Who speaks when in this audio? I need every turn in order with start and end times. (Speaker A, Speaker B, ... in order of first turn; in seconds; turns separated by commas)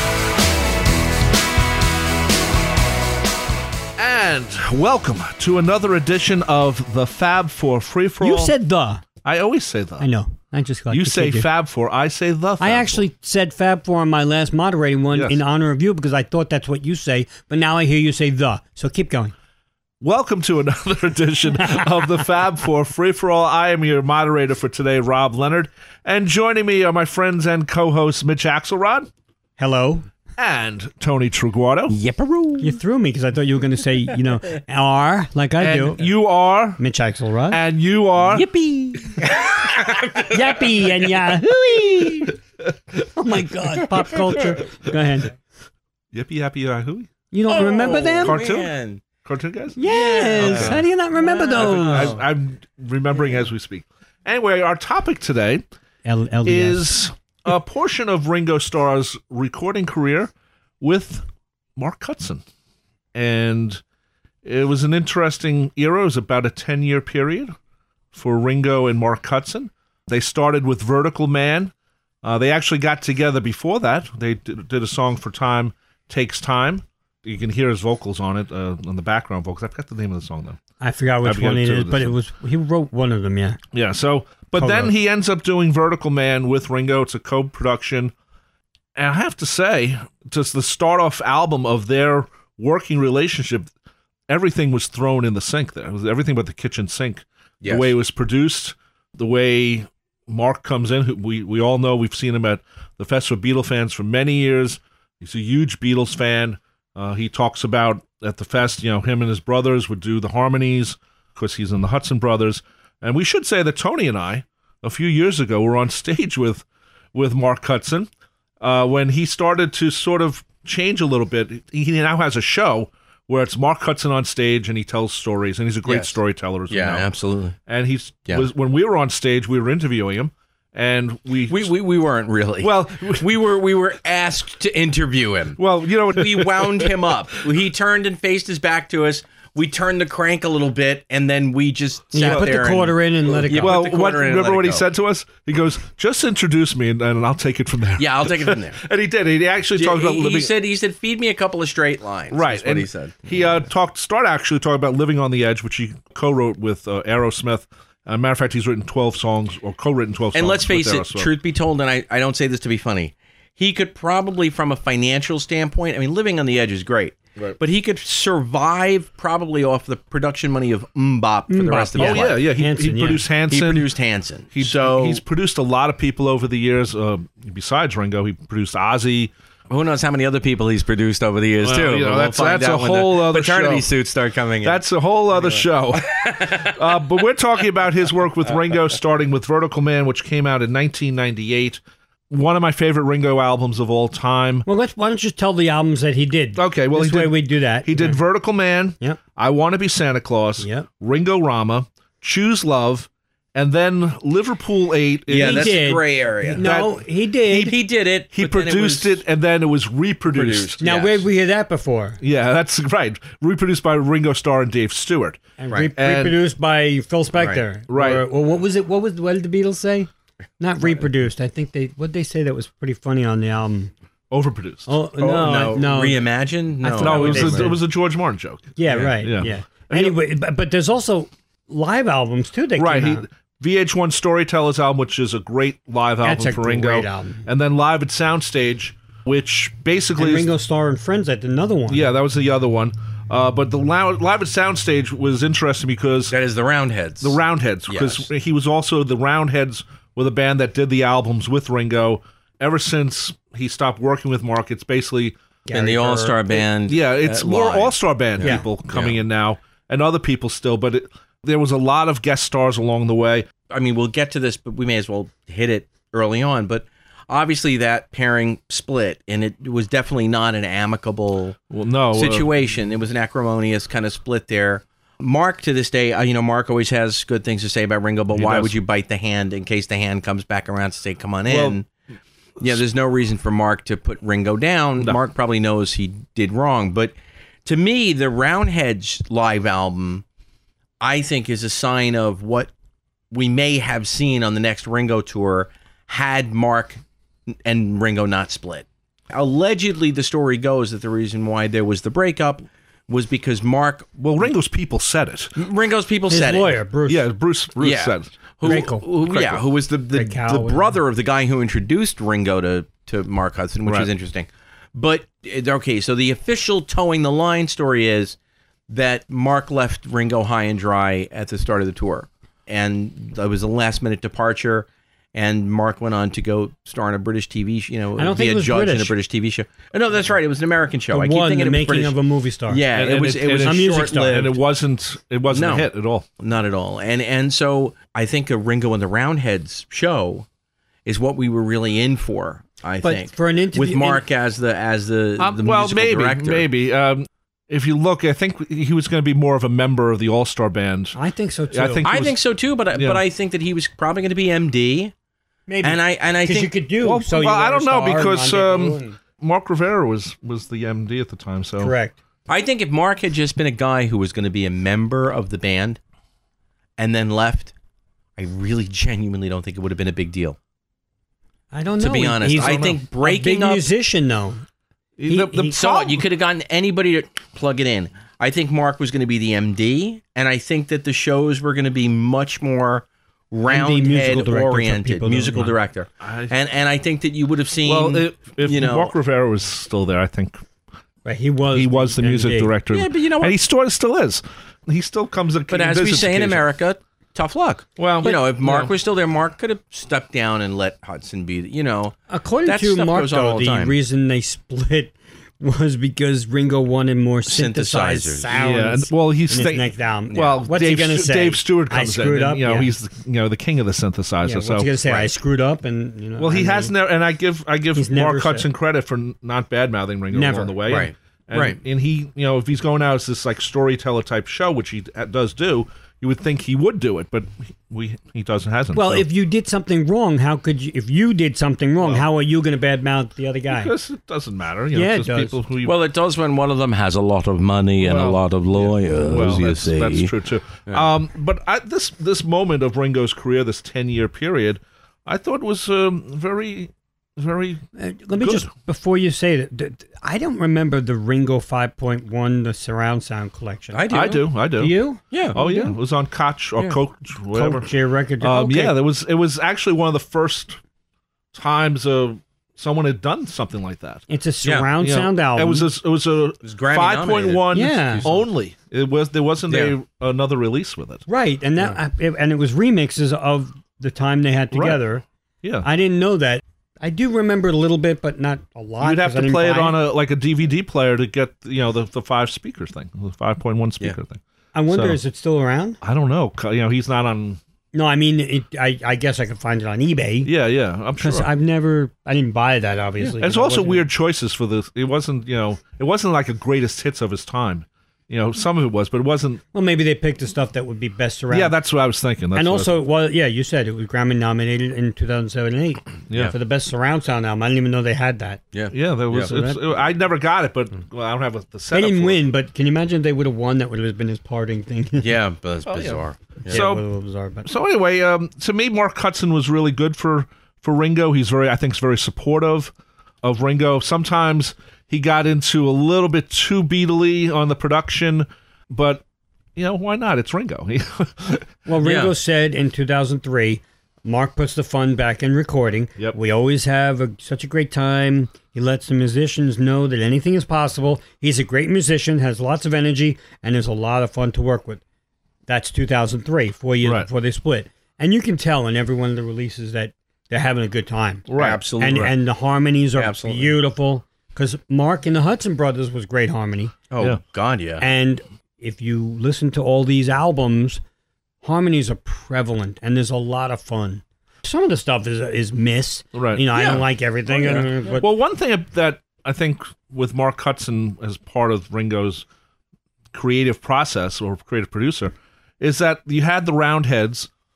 Speaker A: 4.0-8.5, Speaker B: 8.2-9.0, Speaker A: 9.2-10.1, Speaker B: 10.0-11.5, Speaker A: 10.9-13.0, Speaker B: 12.6-19.3, Speaker A: 15.1-15.4, Speaker A: 20.0-29.1, Speaker B: 29.6-30.1, Speaker A: 30.4-31.9, Speaker C: 31.9-32.8, Speaker B: 32.6-36.0, Speaker A: 35.6-36.8, Speaker B: 36.8-37.6, Speaker A: 37.5-38.5, Speaker C: 38.2-40.9, Speaker B: 40.3-42.3, Speaker C: 41.4-42.3, Speaker B: 43.1-45.3, Speaker A: 46.1-47.1, Speaker B: 47.3-48.4, Speaker C: 47.5-49.0, Speaker A: 48.2-48.7, Speaker A: 49.2-49.8, Speaker B: 49.8-52.1, Speaker C: 49.9-52.3, Speaker A: 50.3-50.8, Speaker A: 51.6-55.6, Speaker B: 56.0-56.9, Speaker A: 56.5-61.2, Speaker A: 61.8-62.4, Speaker A: 63.1-63.8, Speaker A: 64.4-67.5, Speaker A: 68.1-71.7, Speaker A: 72.2-80.6, Speaker B: 80.8-83.6, Speaker A: 81.2-82.2, Speaker A: 83.7-88.1, Speaker B: 84.5-84.9, Speaker A: 89.0-93.7, Speaker A: 94.3-118.1, Speaker C: 97.6-97.9, Speaker A: 118.6-127.1, Speaker C: 125.9-126.2, Speaker C: 126.7-127.6, Speaker A: 127.7-131.7, Speaker C: 131.5-144.8, Speaker A: 132.6-133.2, Speaker A: 135.6-136.9, Speaker B: 142.1-143.8, Speaker A: 143.5-150.5, Speaker C: 148.0-148.8, Speaker C: 149.8-153.3, Speaker A: 152.3-161.3, Speaker C: 160.3-172.4, Speaker B: 171.5-173.2, Speaker A: 172.0-173.8, Speaker C: 173.5-175.2, Speaker A: 174.5-179.3, Speaker C: 179.7-186.8, Speaker A: 181.6-183.9, Speaker A: 184.6-194.7, Speaker B: 194.7-198.2, Speaker A: 196.6-205.8, Speaker B: 200.6-200.9, Speaker C: 205.3-206.8, Speaker B: 205.3-207.7, Speaker A: 206.6-206.9, Speaker C: 207.5-209.2, Speaker A: 208.3-210.8, Speaker C: 210.3-211.2, Speaker B: 210.8-212.2, Speaker A: 212.2-215.4, Speaker B: 215.6-223.9, Speaker A: 216.0-216.4, Speaker A: 217.9-218.2, Speaker A: 224.3-224.9, Speaker B: 224.9-226.2, Speaker C: 225.2-227.7, Speaker B: 226.8-227.8, Speaker A: 227.0-230.2, Speaker B: 228.8-233.2, Speaker A: 232.8-240.5, Speaker B: 236.2-237.4, Speaker B: 240.2-242.1, Speaker A: 241.9-246.3, Speaker C: 246.3-248.3, Speaker A: 247.2-255.4, Speaker B: 255.7-256.6, Speaker C: 255.7-259.2, Speaker A: 256.9-263.5, Speaker C: 263.7-271.6, Speaker A: 271.7-272.5, Speaker C: 272.1-281.9, Speaker A: 278.3-278.8, Speaker A: 281.5-281.8, Speaker C: 282.6-287.1, Speaker C: 287.6-290.2, Speaker C: 291.0-292.7, Speaker C: 293.3-297.0, Speaker C: 297.6-304.2, Speaker A: 304.2-305.5, Speaker C: 305.6-306.8, Speaker B: 306.3-307.3, Speaker A: 307.1-309.6, Speaker C: 307.8-318.4, Speaker B: 308.6-309.1, Speaker B: 310.1-310.9, Speaker C: 318.9-332.2, Speaker B: 328.2-329.1, Speaker B: 331.1-332.9, Speaker C: 332.7-334.5, Speaker A: 332.9-336.2, Speaker B: 333.5-334.5, Speaker C: 335.5-335.9, Speaker C: 336.4-340.5, Speaker C: 341.1-346.7, Speaker B: 343.0-344.2, Speaker A: 345.4-351.2, Speaker B: 351.1-352.1, Speaker A: 351.7-352.4, Speaker C: 352.0-355.1, Speaker A: 352.9-353.2, Speaker B: 355.7-359.2, Speaker C: 355.8-356.7, Speaker A: 357.0-361.9, Speaker B: 361.8-362.1, Speaker C: 362.5-366.0, Speaker C: 367.0-367.7, Speaker C: 368.4-370.6, Speaker B: 371.7-374.6, Speaker C: 372.0-373.9, Speaker A: 372.6-372.9, Speaker A: 375.2-376.2, Speaker B: 375.3-375.7, Speaker C: 375.7-389.1, Speaker B: 383.7-385.7, Speaker A: 386.2-386.5, Speaker A: 387.9-390.6, Speaker B: 391.2-392.7, Speaker A: 391.7-396.6, Speaker C: 392.9-393.6, Speaker C: 395.7-403.9, Speaker A: 398.0-398.9, Speaker B: 402.3-412.9, Speaker C: 407.5-408.6, Speaker A: 408.5-414.9, Speaker B: 414.4-416.9, Speaker C: 415.0-415.3, Speaker A: 416.4-429.2, Speaker B: 417.9-418.7, Speaker B: 420.3-421.1, Speaker C: 420.9-421.8, Speaker B: 428.9-433.9, Speaker A: 433.7-435.9, Speaker B: 434.9-435.6, Speaker C: 435.8-440.3, Speaker A: 438.0-447.8, Speaker B: 448.0-454.0, Speaker A: 448.4-448.7, Speaker C: 453.9-454.5, Speaker A: 454.1-454.9, Speaker B: 454.8-455.9, Speaker C: 455.3-455.6, Speaker A: 455.5-457.9, Speaker B: 457.5-458.9, Speaker A: 458.4-460.8, Speaker A: 461.5-464.2, Speaker B: 464.3-465.9, Speaker C: 464.6-464.9, Speaker A: 465.0-471.2, Speaker C: 466.6-468.4, Speaker B: 467.7-468.3, Speaker C: 469.7-470.0, Speaker B: 471.3-475.2, Speaker A: 474.7-475.0, Speaker B: 475.8-480.0, Speaker A: 479.0-485.2, Speaker B: 484.7-486.0, Speaker A: 486.0-487.6, Speaker B: 487.9-490.5, Speaker A: 490.4-491.5, Speaker B: 491.2-494.1, Speaker A: 493.4-499.6, Speaker B: 499.7-501.8, Speaker A: 501.5-502.9, Speaker B: 502.5-508.6, Speaker C: 508.7-509.6, Speaker A: 508.9-512.4, Speaker B: 509.4-509.8, Speaker B: 511.9-515.4, Speaker C: 515.2-516.9, Speaker A: 515.9-517.0, Speaker B: 516.7-517.7, Speaker A: 517.6-529.2, Speaker A: 529.8-531.7, Speaker B: 531.9-545.0, Speaker C: 532.0-532.3, Speaker B: 545.7-551.5, Speaker A: 551.5-551.8, Speaker C: 551.6-552.3, Speaker B: 552.0-557.0, Speaker C: 553.2-553.7, Speaker C: 557.1-558.0, Speaker B: 558.0-561.0, Speaker B: 561.6-568.3, Speaker A: 566.3-566.7, Speaker C: 566.7-567.0, Speaker A: 567.6-572.5, Speaker C: 567.6-568.2, Speaker A: 573.3-577.5